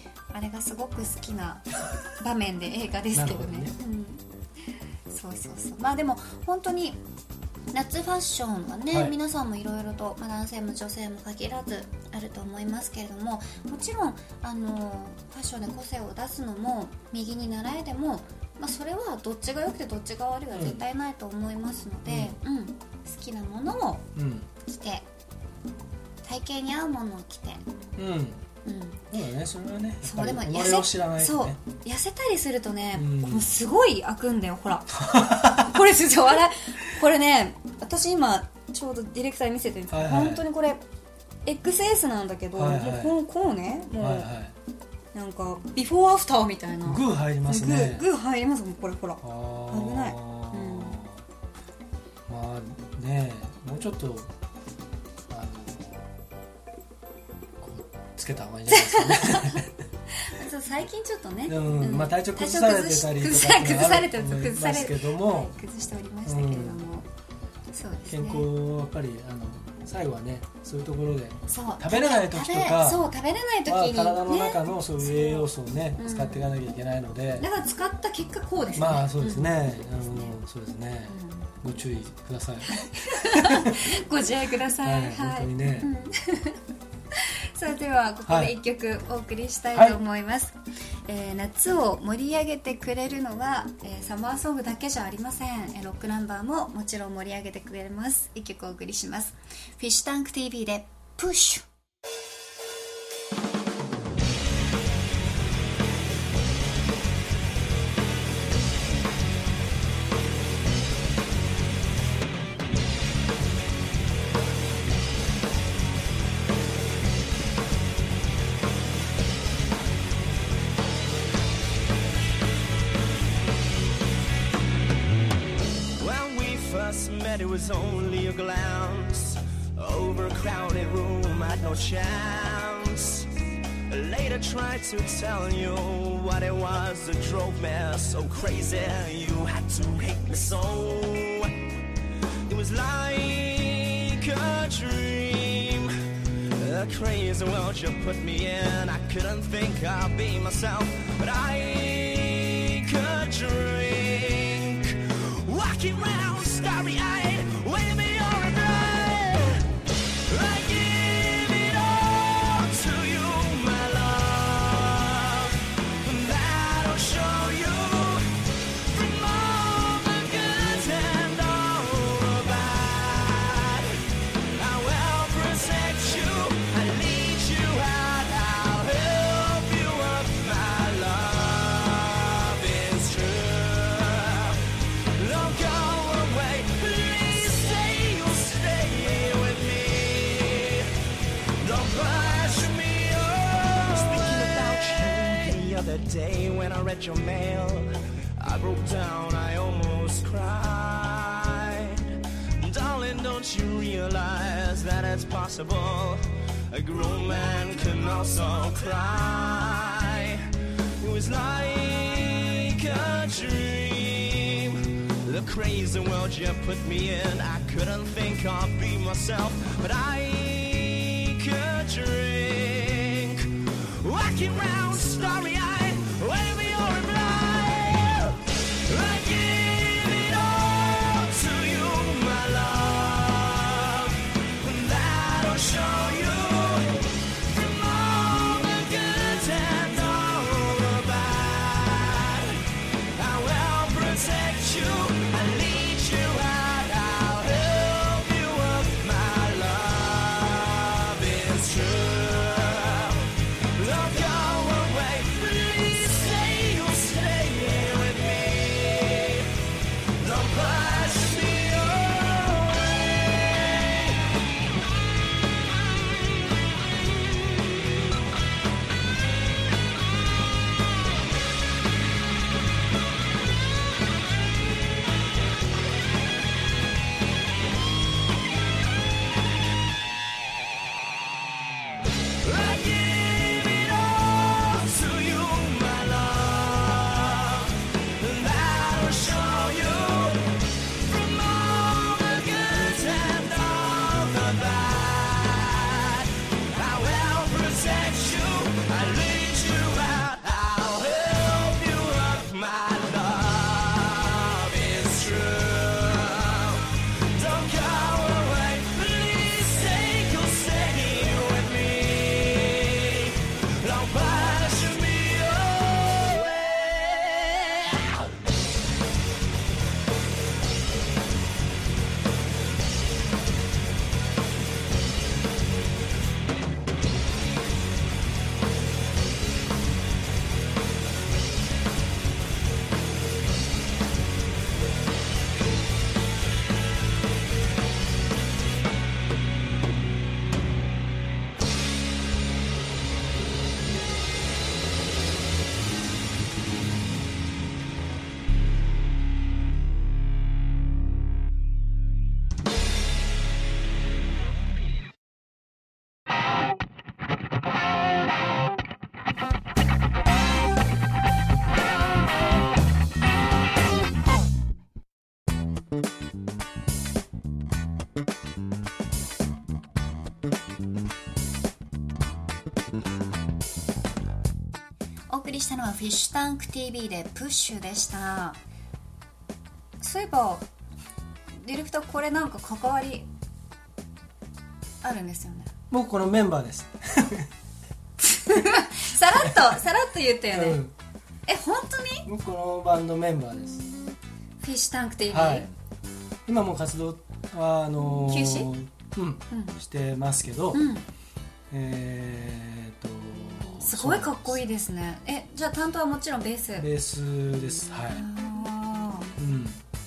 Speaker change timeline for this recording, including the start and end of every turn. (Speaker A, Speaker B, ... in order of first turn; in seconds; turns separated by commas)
Speaker A: 0.3-4.2, Speaker B: 3.1-3.7, Speaker A: 5.1-7.0, Speaker A: 7.7-24.1, Speaker B: 20.5-20.8, Speaker B: 22.1-22.4, Speaker B: 24.1-24.5, Speaker A: 24.6-25.1, Speaker A: 26.2-27.6, Speaker B: 27.9-28.4, Speaker A: 28.6-29.1, Speaker B: 29.1-31.6, Speaker A: 30.0-40.8, Speaker B: 32.9-33.5, Speaker B: 35.0-35.8, Speaker B: 39.9-40.5, Speaker A: 41.4-44.3, Speaker B: 42.5-43.2, Speaker B: 44.0-44.5, Speaker A: 45.1-51.0, Speaker B: 46.8-48.1, Speaker B: 49.2-51.2, Speaker B: 52.3-54.3, Speaker B: 55.3-56.1, Speaker B: 57.6-59.7, Speaker A: 58.7-67.1, Speaker B: 61.5-65.5, Speaker B: 66.2-66.8, Speaker A: 67.7-68.5, Speaker B: 68.1-73.1, Speaker A: 71.5-76.5, Speaker B: 73.6-77.5, Speaker A: 77.4-80.3, Speaker B: 78.7-84.0, Speaker A: 81.1-81.5, Speaker A: 82.7-86.6, Speaker B: 84.7-85.9, Speaker A: 87.1-101.7, Speaker B: 88.2-88.6, Speaker B: 89.7-90.0, Speaker C: 126.0-141.8, Speaker C: 142.4-190.9, Speaker C: 191.6-259.6, Speaker C: 260.2-264.3, Speaker C: 282.4-318.2, Speaker A: 375.3-378.6, Speaker A: 380.0-380.6, Speaker A: 381.6-383.3, Speaker A: 385.0-385.7, Speaker B: 385.9-387.5, Speaker A: 388.2-390.8, Speaker B: 389.4-389.8, Speaker B: 390.5-390.9, Speaker A: 391.5-392.3, Speaker B: 392.2-393.9, Speaker A: 394.6-395.7, Speaker B: 395.3-395.7, Speaker B: 396.4-400.8, Speaker A: 398.0-398.7, Speaker A: 399.5-399.8, Speaker A: 400.7-401.1, Speaker B: 401.7-404.6, Speaker A: 403.8-406.9, Speaker B: 406.8-408.3, Speaker A: 408.1-409.3, Speaker B: 409.4-409.8